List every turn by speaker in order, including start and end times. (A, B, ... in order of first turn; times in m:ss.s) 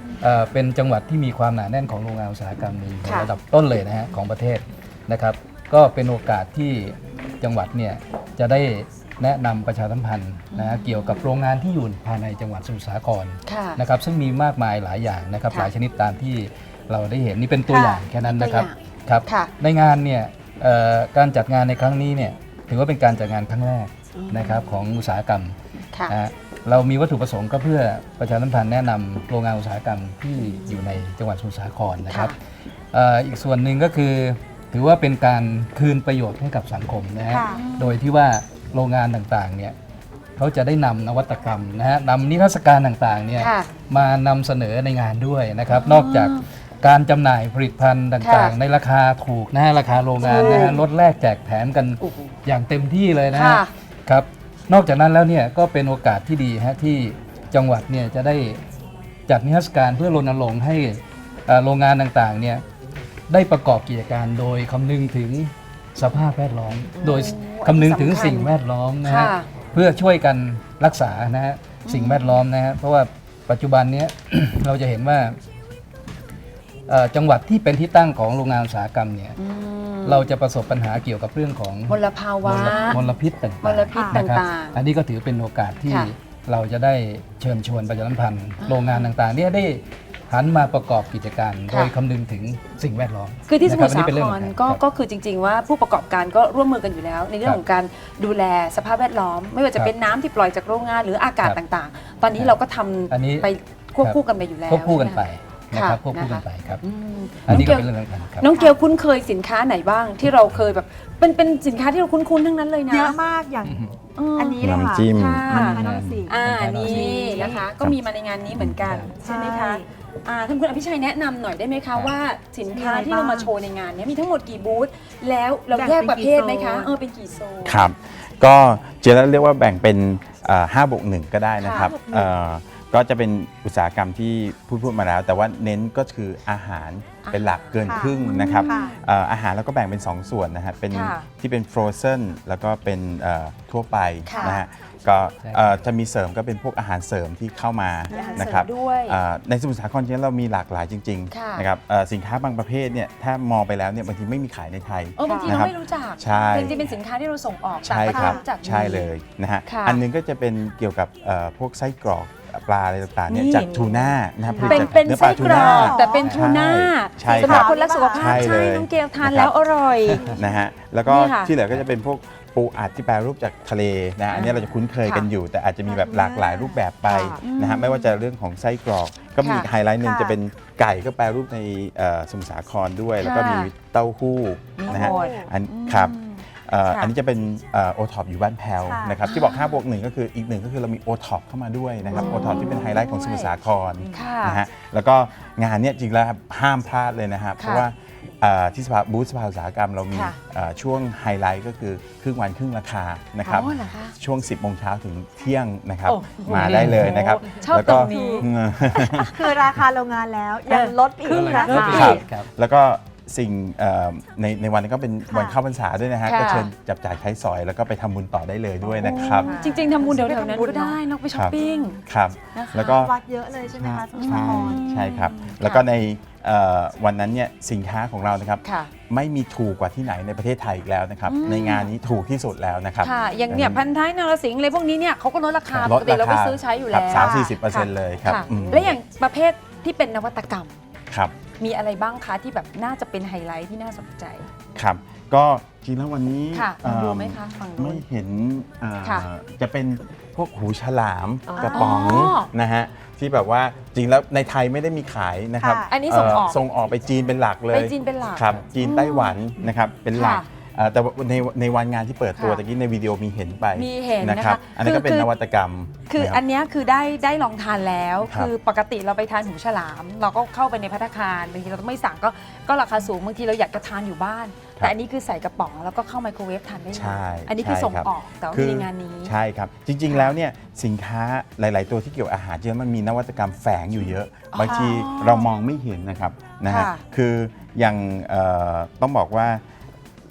0:00.2-0:25.5 A
0:03.0-0:03.3 B
0:10.5-0:11.3 B
0:13.4-0:13.8 B
0:17.7-0:18.0 C
0:17.7-0:18.7 B
0:19.2-0:19.5 B
0:24.1-0:24.8 B
0:25.9-0:26.2 B
0:26.1-0:32.4 A
0:30.4-0:30.9 B
0:32.0-0:32.3 B
0:32.9-0:39.8 A
0:37.3-0:37.6 C
0:37.4-0:38.0 B
0:40.4-0:58.6 A
0:43.4-0:43.7 B
0:45.7-0:46.4 B
0:48.2-0:48.6 B
0:50.2-0:50.8 B
0:52.0-0:52.4 B
0:53.3-0:53.7 B
0:59.3-1:02.6 A
1:03.3-1:15.4 A
1:07.0-1:08.5 B
1:09.0-1:09.5 B
1:11.8-1:12.4 B
1:16.9-1:19.4 A
1:19.4-1:20.3 B
1:20.0-1:34.8 A
1:21.9-1:23.0 B
1:23.6-1:24.8 B
1:25.9-1:26.1 B
1:28.6-1:29.1 B
1:31.7-1:31.9 B
1:33.5-1:53.2 B
1:43.1-1:43.5 A
1:44.0-1:46.8 A
1:47.5-1:48.6 A
1:52.9-1:53.8 C
1:53.6-1:53.9 A
1:54.2-2:07.9 B
1:54.3-1:56.3 C
1:54.6-1:55.8 D
1:55.7-1:57.5 A
1:56.8-1:57.6 C
1:58.8-1:59.1 A
1:59.2-1:59.8 C
2:02.7-2:03.5 C
2:05.7-2:07.0 C
2:07.6-2:36.9 D
2:11.6-2:12.0 B
2:11.7-2:12.3 C
2:17.2-2:19.0 B
2:17.9-2:18.9 C
2:20.9-2:21.3 B
2:24.2-2:24.6 B
2:25.4-2:25.8 A
2:28.1-2:28.5 C
2:28.1-2:29.2 B
2:31.3-2:31.7 B
2:35.2-2:39.1 B
2:37.8-2:49.5 D
2:38.1-2:38.4 C
2:39.6-2:40.0 B
2:43.2-2:50.4 B
2:44.6-2:45.0 A
2:44.6-2:46.2 C
2:46.2-2:46.4 A
2:47.2-2:48.6 C
2:50.1-2:50.4 A
2:50.2-3:29.3 D
2:51.0-2:51.5 B
2:54.3-2:55.3 B
2:55.8-2:57.3 C
2:57.4-2:58.1 B
2:59.4-2:59.7 B
3:00.0-3:00.4 C
3:03.2-3:03.7 B
3:04.8-3:07.1 B
3:04.8-3:05.5 C
3:08.8-3:09.2 C
3:09.2-3:09.8 B
3:12.1-3:13.5 B
3:12.2-3:12.8 C
3:14.1-3:14.6 B
3:17.6-3:17.9 B
3:20.1-3:20.4 B
3:23.4-3:24.1 B
3:26.0-3:29.1 B
3:26.6-3:27.1 A
3:27.8-3:28.4 C
3:29.3-3:32.2 C
3:30.7-3:32.2 B
3:31.2-3:32.5 A
3:31.9-3:39.6 D
3:35.2-3:35.6 C
3:36.2-3:36.7 B
3:39.0-3:42.0 B
3:39.2-3:40.9 C
3:41.3-3:43.1 D
3:42.5-3:43.0 B
3:42.7-3:44.8 C
3:43.8-3:53.8 D
3:44.1-3:45.8 B
3:48.6-3:48.9 B
3:51.2-3:51.9 B
3:53.0-4:00.8 B
3:55.7-3:58.9 D
3:57.1-3:57.5 C
4:01.6-4:04.5 B
4:04.7-4:26.4 D
4:06.5-4:08.0 B
4:09.0-4:09.3 B
4:11.5-4:12.5 B
4:11.6-4:12.3 C
4:15.6-4:15.9 C
4:15.9-4:16.6 B
4:17.7-4:19.4 B
4:20.1-4:20.5 B
4:22.3-4:22.6 B
4:23.7-4:25.3 B
4:26.1-4:39.3 B
4:36.9-4:49.6 D
4:40.1-4:40.3 B
4:44.5-4:45.5 B
4:46.7-4:47.0 B